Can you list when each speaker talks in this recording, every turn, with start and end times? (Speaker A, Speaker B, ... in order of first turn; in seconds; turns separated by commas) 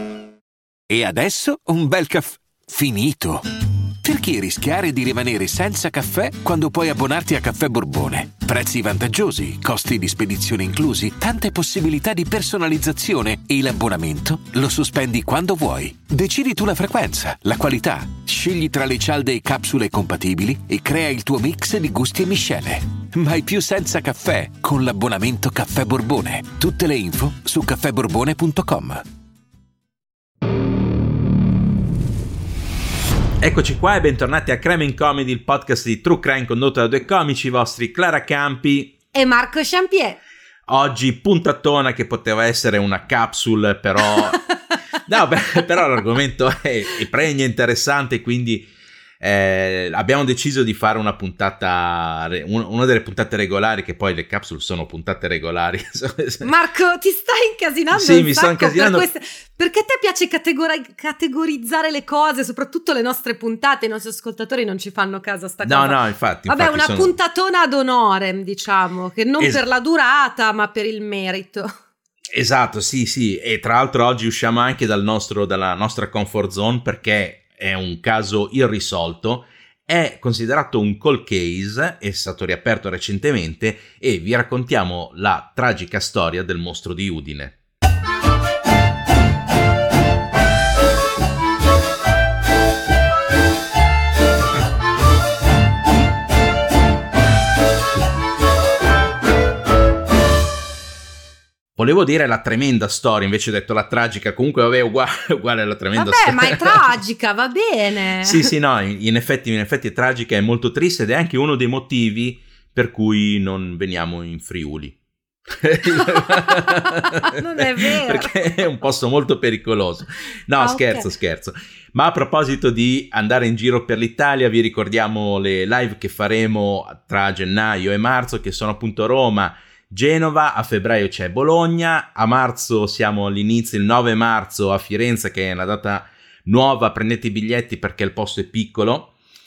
Speaker A: 0.9-3.4, Speaker A: 4.0-29.0, Speaker B: 33.4-39.0, Speaker C: 39.1-40.2, Speaker B: 40.7-44.4, Speaker B: 45.0-48.7, Speaker B: 49.2-56.5, Speaker C: 56.4-71.7, Speaker B: 57.9-59.0, Speaker B: 65.6-67.1, Speaker B: 72.3-87.5, Speaker B: 101.8-106.9, Speaker C: 105.9-108.5, Speaker B: 108.2-115.0, Speaker B: 115.5-139.1, Speaker C: 115.9-118.6, Speaker C: 120.6-121.1